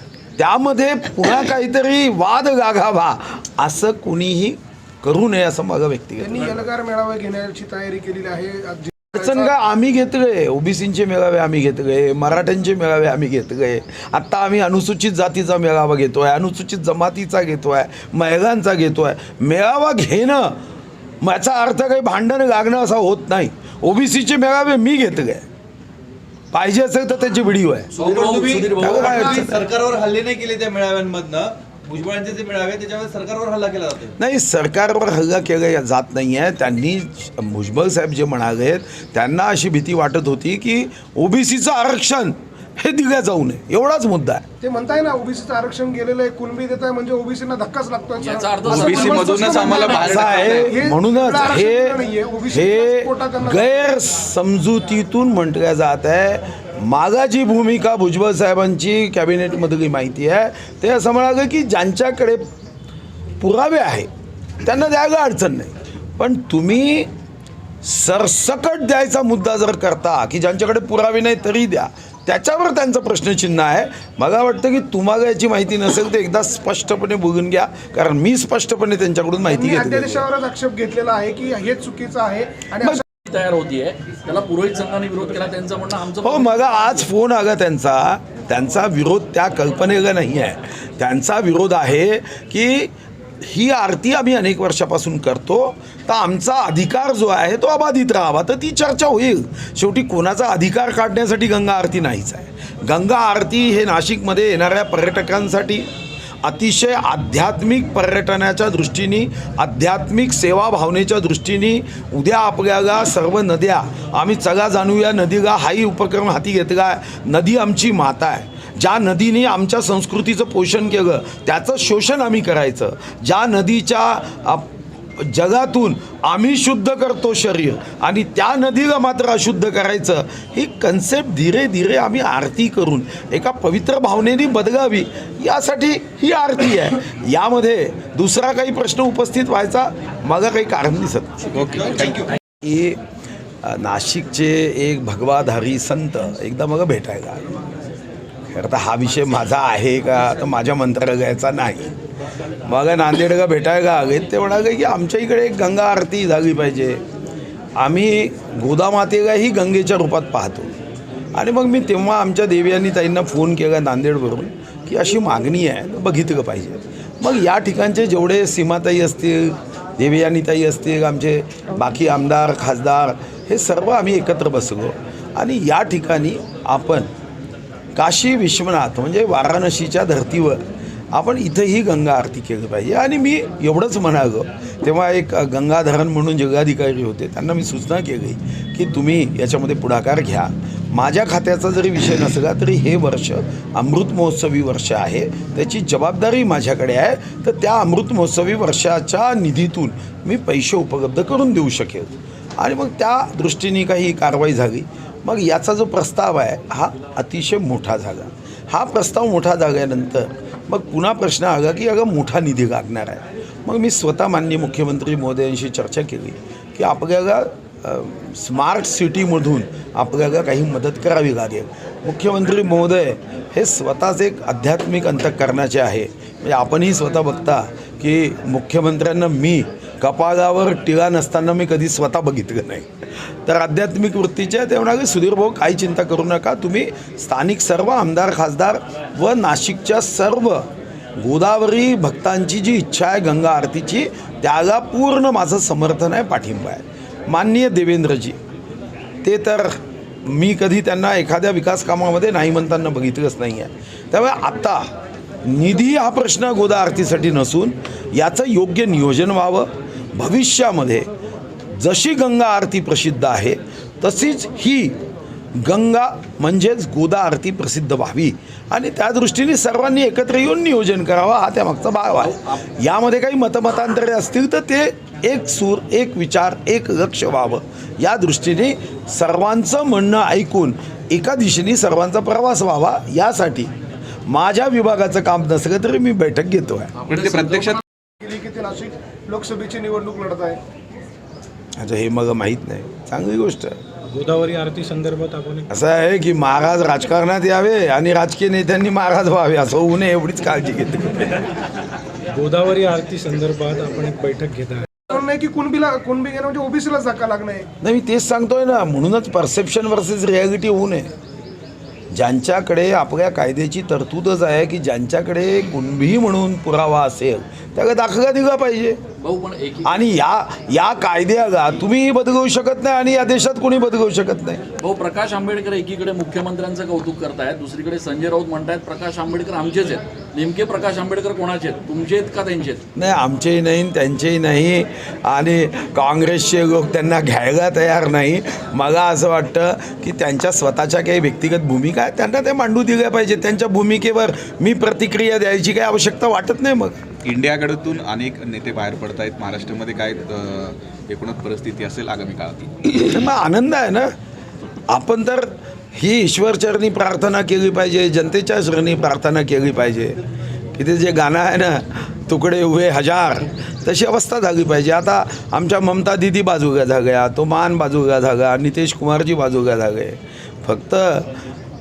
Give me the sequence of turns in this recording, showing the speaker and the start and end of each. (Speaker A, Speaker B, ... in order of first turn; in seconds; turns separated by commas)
Speaker A: 0.4-6.6, Speaker B: 6.2-9.5, Speaker A: 9.1-20.6, Speaker A: 21.2-25.4, Speaker A: 26.5-27.9, Speaker C: 27.9-34.1, Speaker D: 28.2-28.6, Speaker A: 28.7-29.7, Speaker A: 34.2-44.4, Speaker B: 44.6-53.8, Speaker D: 48.2-50.5, Speaker E: 48.6-50.8, Speaker A: 50.0-52.0, Speaker A: 52.5-62.4, Speaker A: 63.4-64.1, Speaker A: 64.6-67.1, Speaker A: 67.8-80.2, Speaker B: 79.5-83.0, Speaker D: 83.3-87.1, Speaker A: 86.2-92.9, Speaker A: 93.4-105.9, Speaker A: 106.4-141.4, Speaker E: 141.5-142.3, Speaker A: 142.6-143.0, Speaker A: 143.6-147.4, Speaker A: 148.5-151.9, Speaker A: 152.7-157.0, Speaker A: 157.8-160.7, Speaker A: 161.3-177.1, Speaker A: 177.9-232.9, Speaker A: 233.4-240.7, Speaker A: 241.2-248.4, Speaker A: 249.2-254.9, Speaker A: 255.4-261.1, Speaker A: 261.7-265.0, Speaker A: 265.6-283.7, Speaker D: 272.2-272.6, Speaker A: 284.3-286.9, Speaker E: 287.0-287.8, Speaker B: 287.3-290.6, Speaker A: 291.8-293.8, Speaker F: 294.1-295.7, Speaker A: 295.7-301.5, Speaker F: 302.3-304.9, Speaker B: 305.1-307.7, Speaker A: 307.8-311.1, Speaker A: 312.1-319.0, Speaker D: 319.2-320.0, Speaker A: 319.8-324.6, Speaker D: 324.8-332.8, Speaker A: 332.9-347.0, Speaker E: 347.2-352.7, Speaker A: 352.8-354.1, Speaker A: 354.9-360.2, Speaker A: 360.8-371.3